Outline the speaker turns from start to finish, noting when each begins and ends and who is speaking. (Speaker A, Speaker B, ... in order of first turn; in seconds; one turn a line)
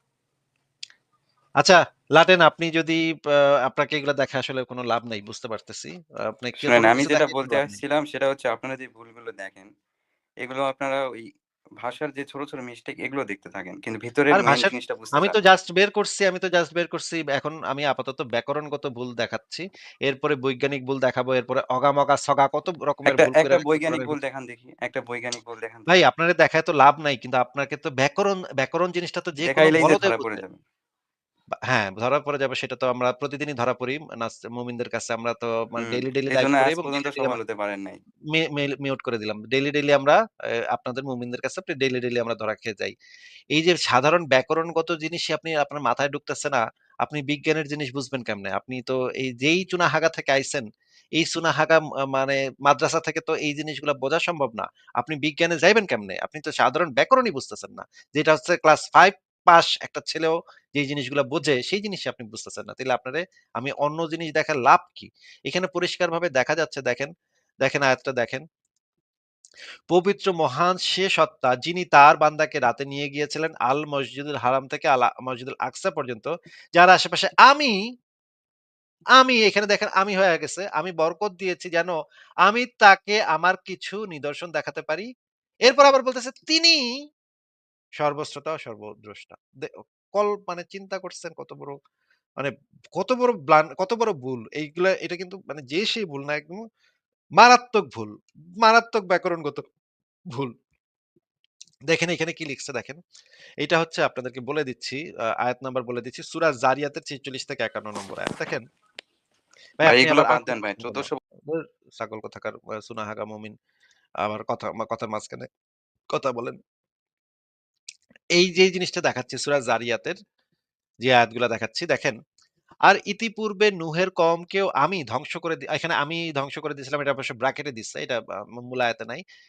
Speaker A: 1.6-7.8
Speaker B: 6.6-9.7
Speaker B: 10.4-11.2
Speaker B: 11.8-15.4
Speaker A: 14.3-24.1
Speaker B: 23.1-25.9
Speaker A: 25.9-30.4
Speaker B: 29.4-30.6
Speaker A: 31.7-37.4
Speaker B: 35.8-38.0
Speaker A: 38.3-40.2
Speaker A: 40.7-42.9
Speaker A: 43.5-50.6
Speaker A: 51.2-67.1
Speaker A: 67.6-68.4
Speaker A: 69.9-77.7
Speaker A: 79.2-81.9
Speaker A: 82.5-85.1
Speaker A: 85.7-86.8
Speaker A: 88.0-91.7
Speaker A: 92.4-96.6
Speaker A: 97.4-98.1
Speaker A: 98.6-99.6
Speaker A: 101.9-103.0
Speaker A: 103.6-108.6
Speaker A: 109.8-113.5
Speaker B: 109.8-111.2
Speaker A: 114.2-115.5
Speaker A: 116.1-116.6
Speaker A: 118.4-120.2
Speaker A: 121.0-122.2
Speaker A: 122.9-129.2